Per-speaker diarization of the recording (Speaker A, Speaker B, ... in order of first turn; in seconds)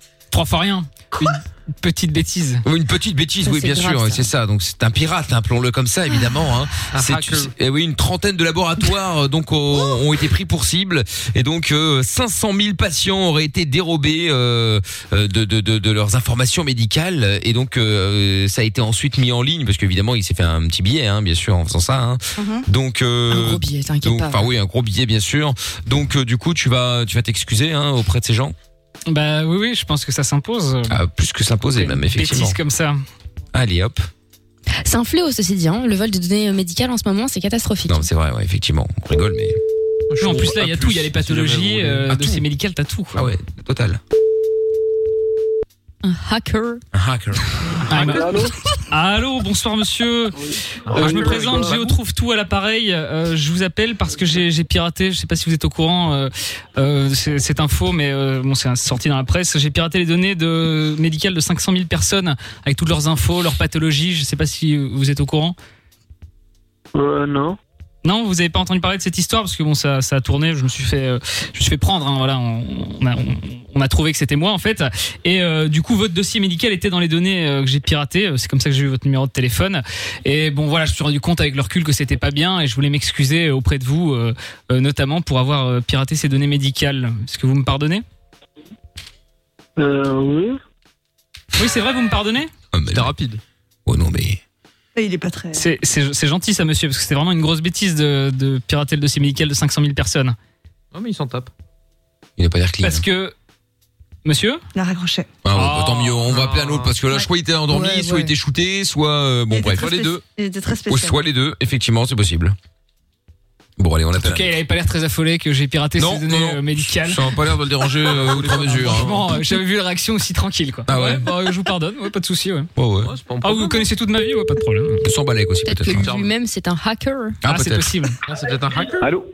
Speaker A: 0.3-2.6, 29.1-30.9, 31.7-33.0, 40.2-43.2, 47.9-50.4, 50.9-65.5, 68.0-88.0, 91.6-92.5, 95.5-100.4, 102.8-103.3, 104.2-104.6, 105.5-106.3, 114.2-117.2, 118.8-122.7, 123.4-125.0, 127.5-128.2
Speaker B: 2.6-28.6, 30.9-32.6, 33.5-34.1, 37.9-39.6, 42.1-42.4, 43.1-44.0, 46.9-47.4, 92.7-93.1, 93.9-94.4, 102.4-103.1, 105.5-110.0, 110.9-112.6, 113.8-114.6, 116.0-119.2, 120.9-121.3, 122.8-123.1, 125.0-126.1, 127.4-127.9
Speaker C: 3.4-4.3, 6.1-6.3, 23.3-24.5, 34.8-38.1, 46.0-46.8, 125.7-127.4
Speaker D: 6.9-7.5, 40.1-42.1, 50.9-51.9, 92.9-93.4, 100.9-101.5, 106.3-107.0, 109.8-110.2, 118.1-119.1, 123.0-123.9, 125.9-126.3, 128.3-129.1
Speaker E: 22.4-22.7, 95.0-95.7, 104.8-105.4, 107.1-108.3, 109.5-111.2
Speaker F: 48.0-48.5, 51.0-51.8, 67.0-67.5, 89.8-90.6